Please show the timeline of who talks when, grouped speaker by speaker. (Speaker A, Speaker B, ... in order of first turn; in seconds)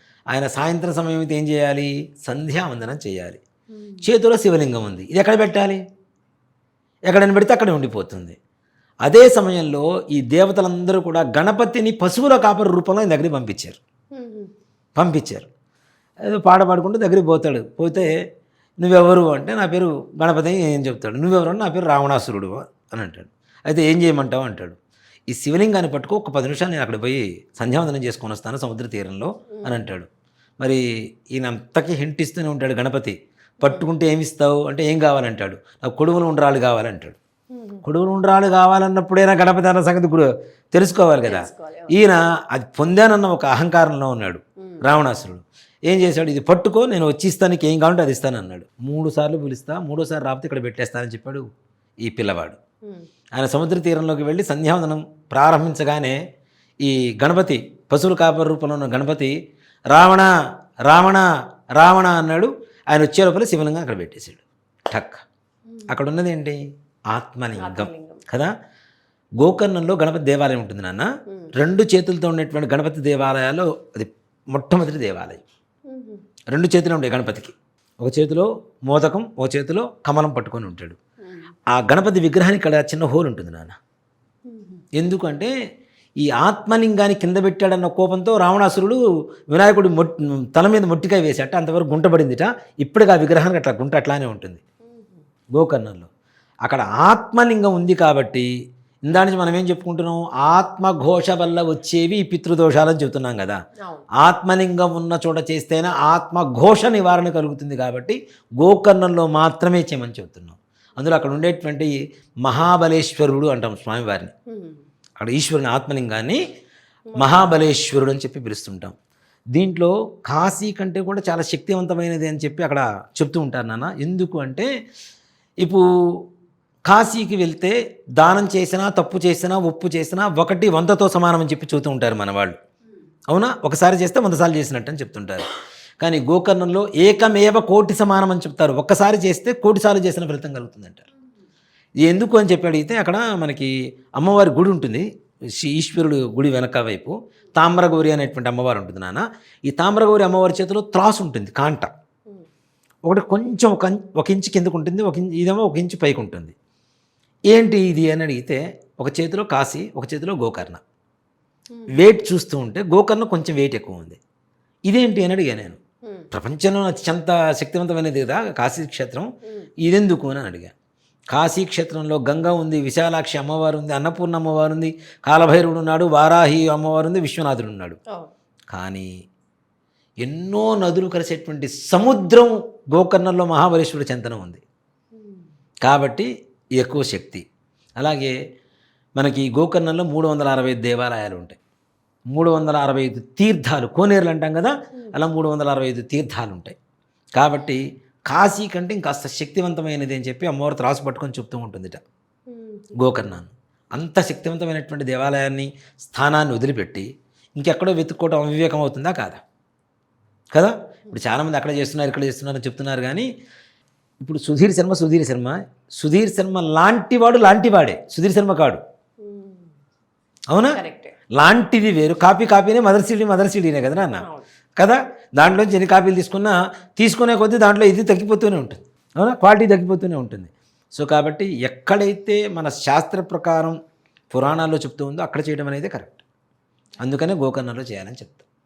Speaker A: 0.3-3.4, 4.0-5.8, 7.1-8.3, 9.0-13.8, 14.9-15.5, 16.2-18.1, 18.8-24.8, 25.3-30.1, 30.6-37.2, 37.8-51.5, 52.0-52.6, 53.3-56.2, 56.8-59.3, 59.9-60.3, 60.8-61.2, 61.8-65.2, 65.9-68.5, 69.4-75.4, 76.5-81.0, 81.7-83.8, 85.0-85.5, 86.2-89.0, 89.5-94.6, 95.5-96.1, 96.6-98.5, 99.0-103.6, 104.2-114.3, 115.2-116.4, 117.2-118.9, 119.5-124.7, 126.8-132.6, 133.3-135.5, 136.0-141.0, 142.0-145.1, 145.6-151.9, 153.0-156.5, 157.5-160.8, 161.9-164.2, 164.9-165.8, 166.3-170.7, 171.3-178.0, 178.7-179.1, 180.2-184.6, 185.8-187.4, 188.0-188.3, 189.2-191.6, 192.3-196.8, 197.3-202.0, 203.0-209.4, 210.5-213.3, 214.2-218.8, 220.5-220.8, 221.3-224.2, 224.8-233.8, 234.3-236.2, 237.0-238.4
Speaker B: 3.7-4.0, 14.1-14.5, 29.5-29.8, 37.5-37.8, 41.2-42.0, 67.6-68.2, 75.9-76.2, 84.5-84.8, 94.8-95.2, 114.5-114.8, 117.1-117.5, 169.4-169.7, 185.1-185.4, 202.5-202.9, 219.2-219.7, 220.7-221.1, 224.2-224.5